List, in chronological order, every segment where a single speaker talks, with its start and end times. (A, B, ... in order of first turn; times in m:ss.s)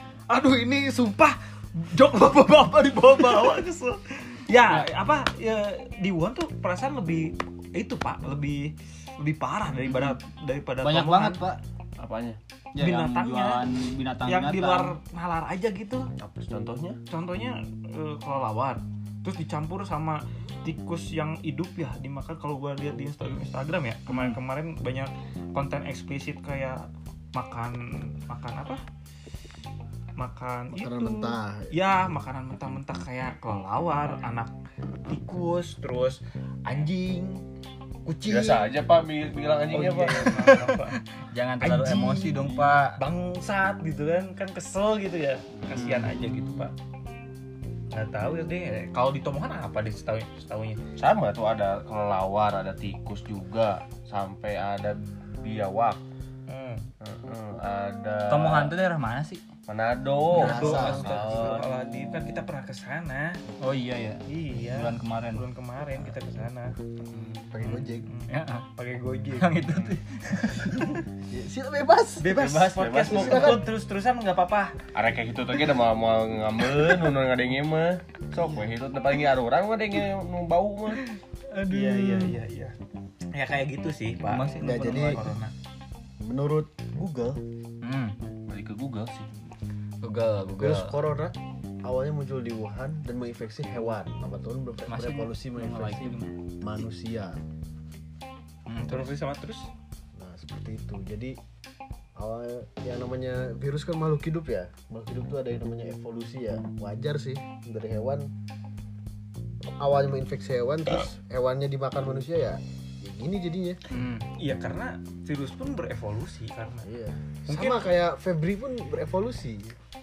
0:00.3-0:11.4 A
0:04.6-0:04.9 B
0:09.8-0:10.2 B
0:10.8-0:11.6 B
0:12.0-0:12.4 C
0:12.7-0:15.0 B
0:12.8-0:13.6 A
0:14.3-0:16.1 A
0:16.2-0:17.0 C
0:17.1-0:26.8 A
0:24.1-0:24.4 B
0:27.4-0:28.8 A
0:30.2-0:34.5 A
0:30.7-0:31.7 D
0:35.1-0:37.4 A
0:38.1-0:38.7 A
0:38.3-0:40.3 C
0:39.7-0:41.0 A
0:40.3-0:43.0 B
0:41.6-0:46.7 A
0:45.7-0:46.7 C
0:47.9-0:50.8 A
0:51.0-0:56.0 C
0:56.5-0:56.8 A
0:57.0-0:58.7 C
0:58.3-0:59.4 B
0:59.7-1:01.7 C
1:00.3-1:01.5 B
1:00.3-1:03.4 A
1:00.4-1:01.1 D
1:03.6-1:05.4 B
1:04.3-1:06.9 A
1:07.5-1:08.1 D
1:08.1-1:09.5 A
1:08.3-1:08.7 B
1:09.4-1:11.0 B
1:10.6-1:11.0 A
1:11.3-1:12.4 D
1:12.2-1:14.8 A
1:12.3-1:13.6 C
1:13.0-1:13.7 D
1:14.9-1:21.0 C
1:21.5-1:22.3 B
1:21.7-1:22.8 A
1:23.3-1:25.5 A
1:24.3-1:25.2 B
1:24.6-1:25.2 D
1:26.2-1:27.4 D
1:27.8-1:28.2 B
1:28.5-1:29.3 C
1:30.0-1:30.9 B
1:30.6-1:37.4 D
1:34.9-1:36.3 B
1:38.7-1:39.2 B
1:38.8-1:39.7 A
1:40.2-1:41.4 D
1:42.2-1:48.3 D
1:49.7-1:53.8 D
1:53.9-1:56.9 A
1:56.8-1:59.8 D
1:57.5-1:57.9 A